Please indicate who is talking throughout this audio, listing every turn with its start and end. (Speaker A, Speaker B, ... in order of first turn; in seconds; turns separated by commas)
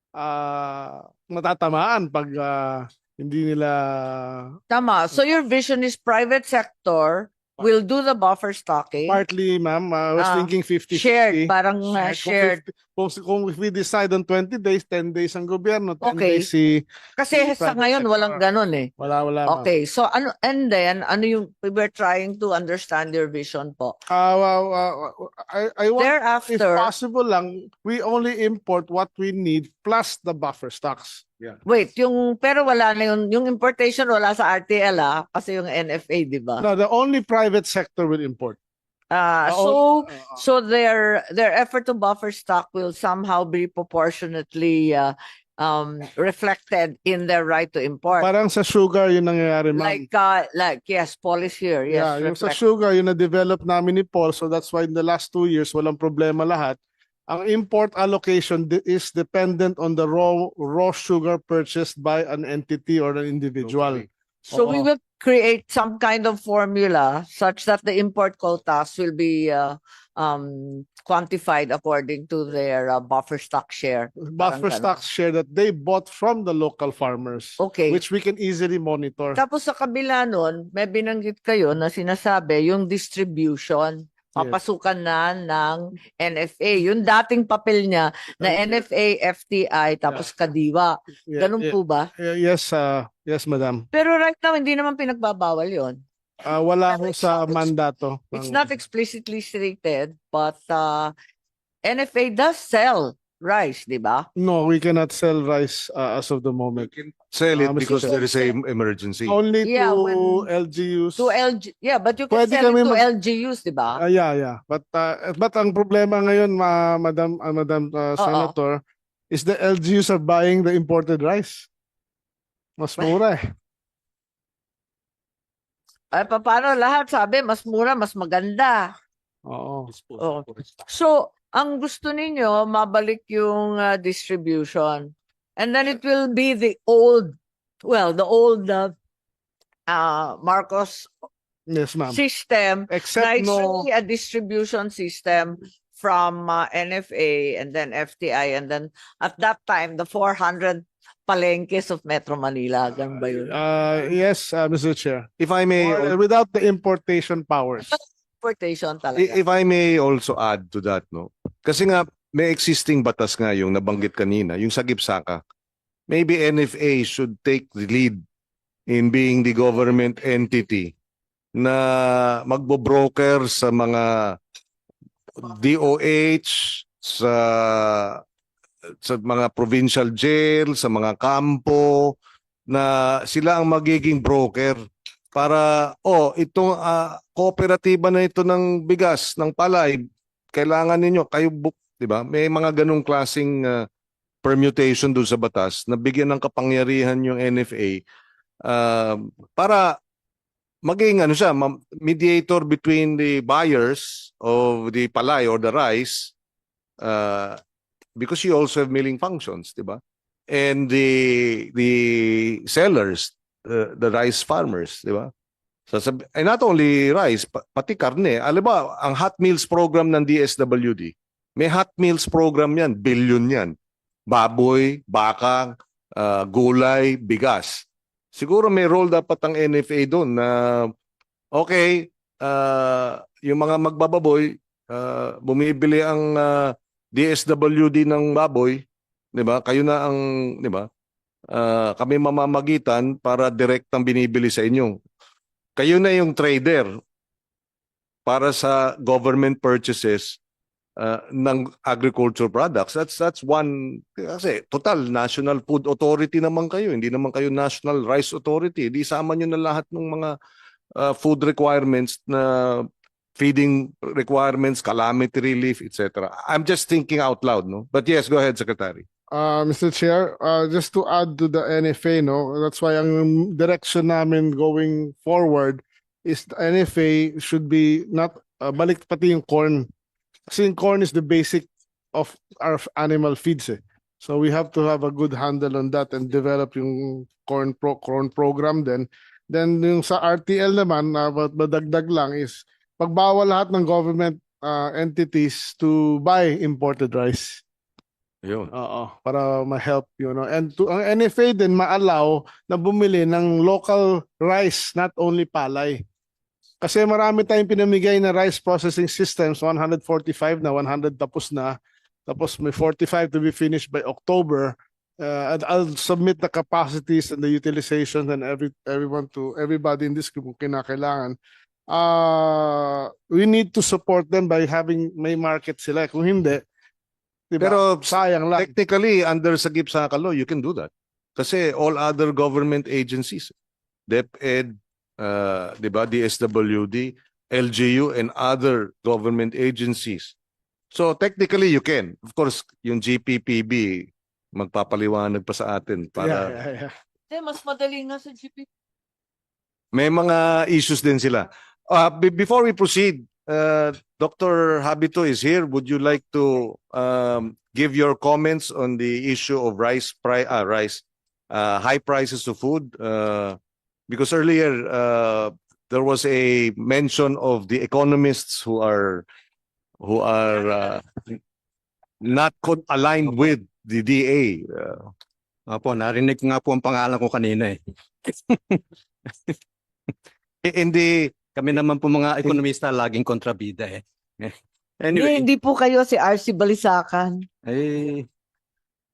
Speaker A: 0.1-4.5, Speaker B: 4.7-9.2, Speaker A: 9.1-18.4, Speaker B: 10.2-12.6, Speaker B: 16.0-16.5, Speaker B: 17.2-18.9, Speaker A: 19.0-19.7, Speaker B: 19.4-23.9, Speaker A: 24.1-31.2, Speaker B: 26.0-26.9, Speaker B: 31.6-36.6, Speaker A: 36.6-38.6, Speaker B: 39.1-48.3, Speaker A: 39.5-40.4, Speaker A: 48.2-50.0, Speaker B: 49.7-52.6, Speaker A: 51.9-64.9, Speaker C: 63.6-64.0, Speaker B: 64.5-74.9, Speaker A: 74.2-79.4, Speaker B: 77.6-78.0, Speaker B: 79.3-92.1, Speaker A: 88.4-88.7, Speaker A: 91.3-93.8, Speaker B: 93.9-96.0, Speaker A: 96.4-98.6, Speaker B: 96.9-97.7, Speaker B: 98.3-101.1, Speaker B: 101.8-104.2, Speaker A: 104.3-106.9, Speaker C: 106.8-109.4, Speaker A: 107.5-108.2, Speaker B: 107.9-108.4, Speaker A: 109.3-111.3, Speaker B: 109.6-110.5, Speaker B: 111.2-114.0, Speaker A: 112.3-113.0, Speaker A: 114.0-121.7, Speaker B: 118.2-118.5, Speaker A: 122.8-123.4, Speaker B: 126.1-128.9, Speaker A: 129.4-129.9, Speaker B: 130.2-138.9, Speaker B: 139.9-141.1, Speaker A: 141.7-142.2, Speaker B: 142.1-153.5, Speaker A: 142.9-143.9, Speaker A: 153.4-157.9, Speaker C: 155.4-156.1, Speaker B: 157.9-159.4, Speaker C: 159.2-165.4, Speaker C: 166.1-168.2, Speaker C: 168.9-170.9, Speaker C: 171.6-174.4, Speaker C: 175.4-178.2, Speaker C: 179.0-182.1, Speaker C: 182.7-184.8, Speaker C: 185.3-190.0, Speaker C: 190.5-193.8, Speaker C: 194.4-198.0, Speaker C: 198.6-200.0, Speaker C: 200.8-206.3, Speaker C: 207.0-207.6, Speaker C: 208.2-215.3, Speaker C: 215.9-223.7, Speaker C: 224.3-230.9, Speaker C: 231.5-240.9, Speaker C: 241.5-245.0, Speaker C: 245.8-246.9, Speaker C: 248.2-250.4, Speaker C: 251.0-260.3, Speaker C: 260.9-269.0, Speaker A: 269.3-279.9, Speaker A: 280.5-297.6, Speaker C: 298.4-298.7, Speaker A: 298.7-306.0, Speaker A: 306.8-321.4, Speaker A: 321.9-326.6, Speaker A: 327.5-328.7, Speaker C: 327.6-333.5, Speaker C: 334.1-340.3, Speaker C: 340.9-346.6, Speaker A: 346.2-346.9, Speaker B: 347.3-348.7, Speaker C: 349.9-363.6, Speaker C: 364.1-369.2, Speaker C: 370.0-371.3, Speaker C: 372.2-375.1, Speaker D: 375.7-377.7, Speaker C: 380.6-381.6, Speaker D: 381.6-383.8, Speaker D: 385.0-385.3, Speaker B: 385.1-387.4, Speaker D: 387.7-388.0